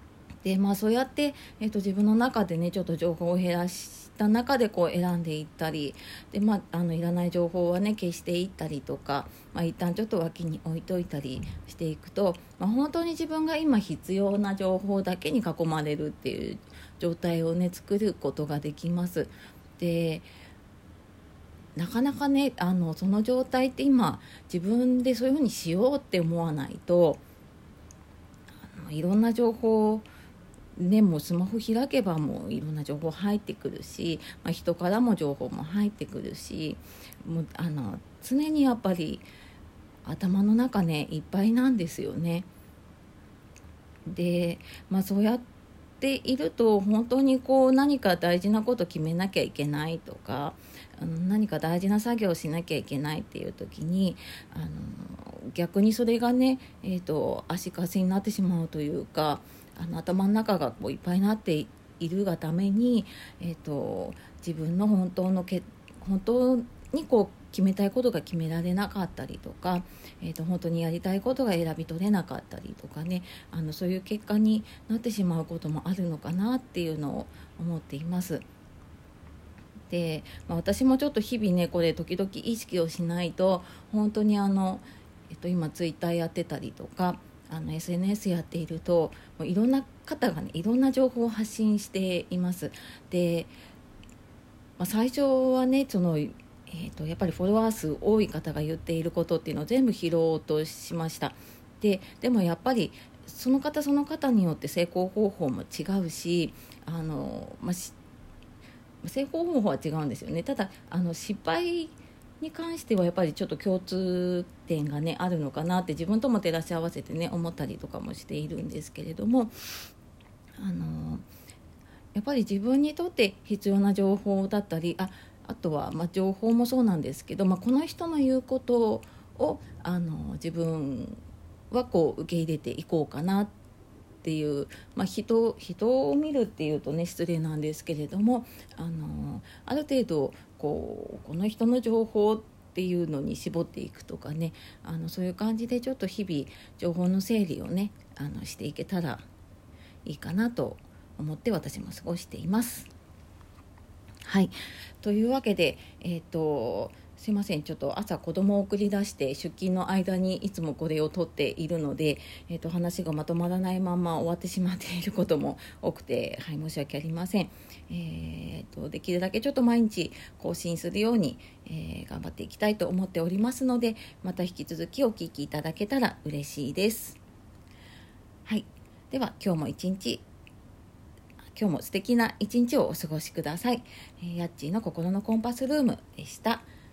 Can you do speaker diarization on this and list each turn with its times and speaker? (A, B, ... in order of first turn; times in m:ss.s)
0:00.4-0:20.3 A
0:21.8-0:27.2 A
0:28.6-0:30.0 A
0:30.8-0:39.2 A
0:40.0-0:42.5 A
0:44.0-0:45.4 A
0:46.0-1:18.4 A
1:19.9-1:33.5 A
1:34.8-1:48.0 A
1:49.0-1:59.5 A
2:00.6-2:01.2 A
2:02.1-2:11.2 A
2:11.7-2:13.5 A
2:14.2-2:29.2 A
2:30.0-2:32.9 A
2:34.2-2:57.2 A
2:58.4-3:00.2 A
3:01.5-3:06.6 A